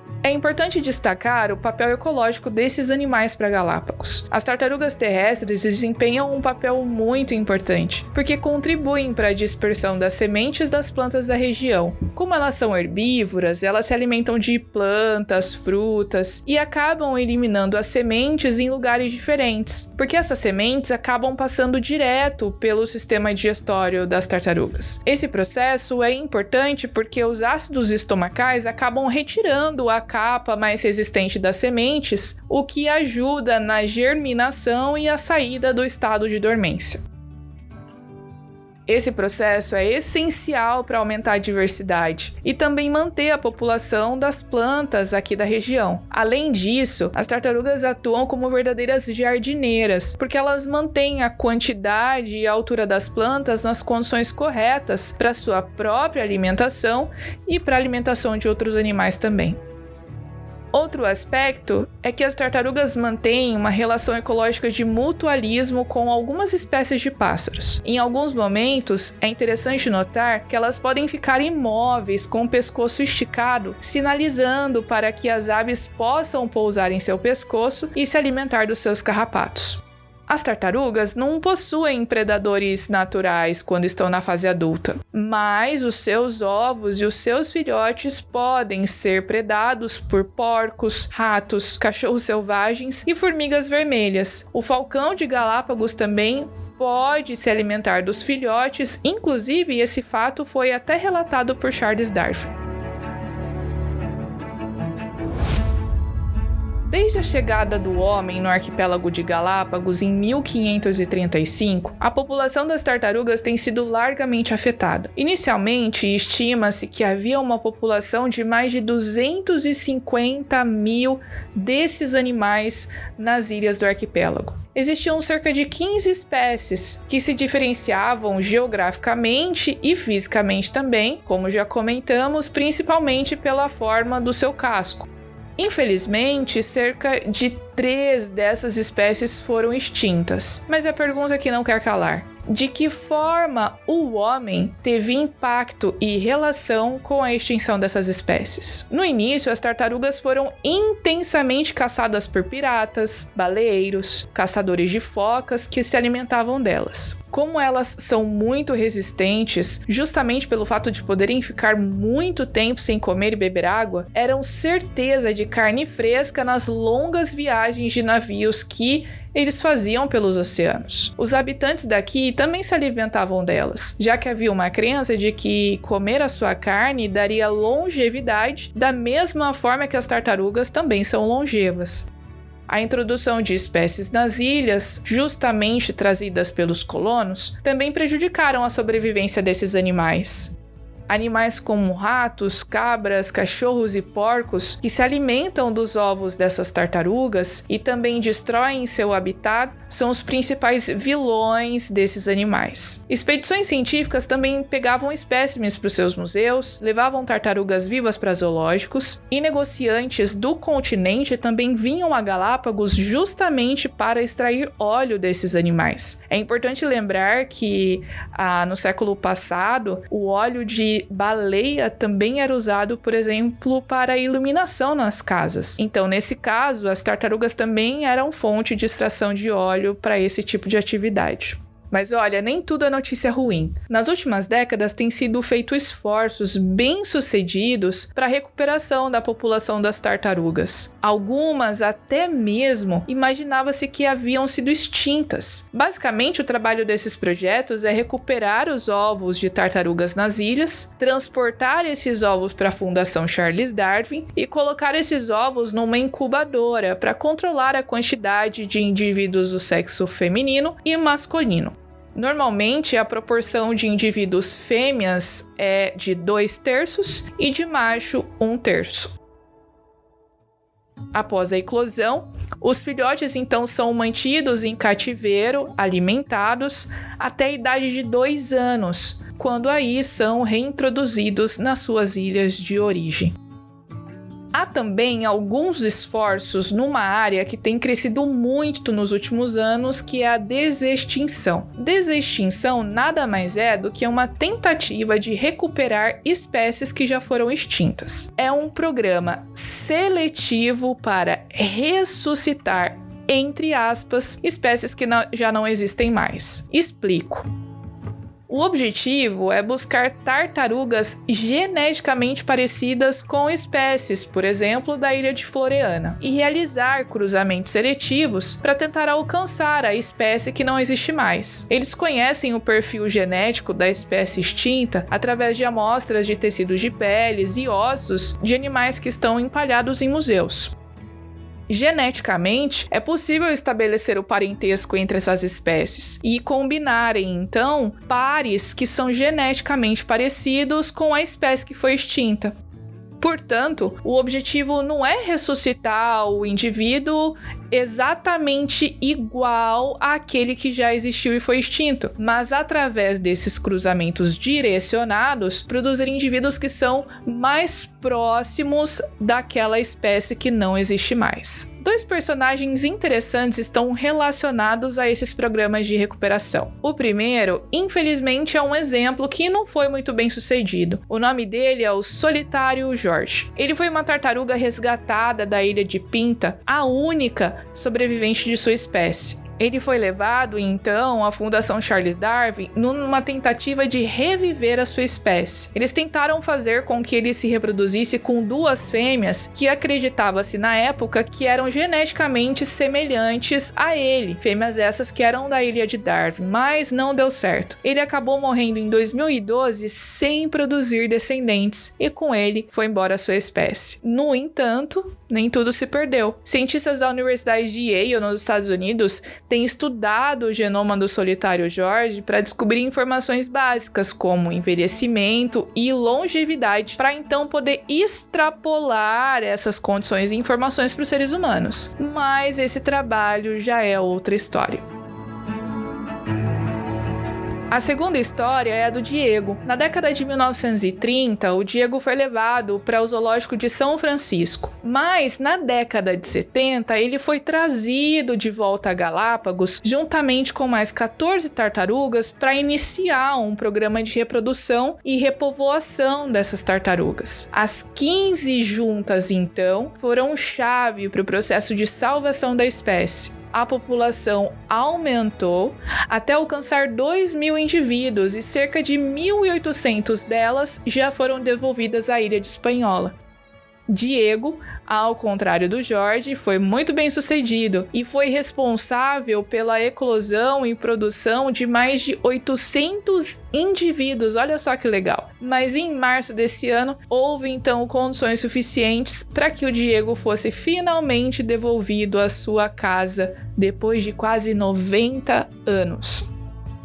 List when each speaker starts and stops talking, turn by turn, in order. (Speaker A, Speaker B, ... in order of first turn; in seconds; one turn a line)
Speaker A: 0.2-37.0
Speaker A: 38.9-59.6
Speaker A: 60.7-102.5
Speaker A: 106.8-182.1
Speaker A: 182.7-190.5
Speaker A: 191.1-269.1
Speaker A: 271.1-283.3
Speaker A: 284.5-307.5
Speaker A: 308.5-330.7
Speaker A: 331.7-342.5
Speaker A: 343.2-424.8
Speaker A: 427.7-463.1
Speaker A: 463.9-486.3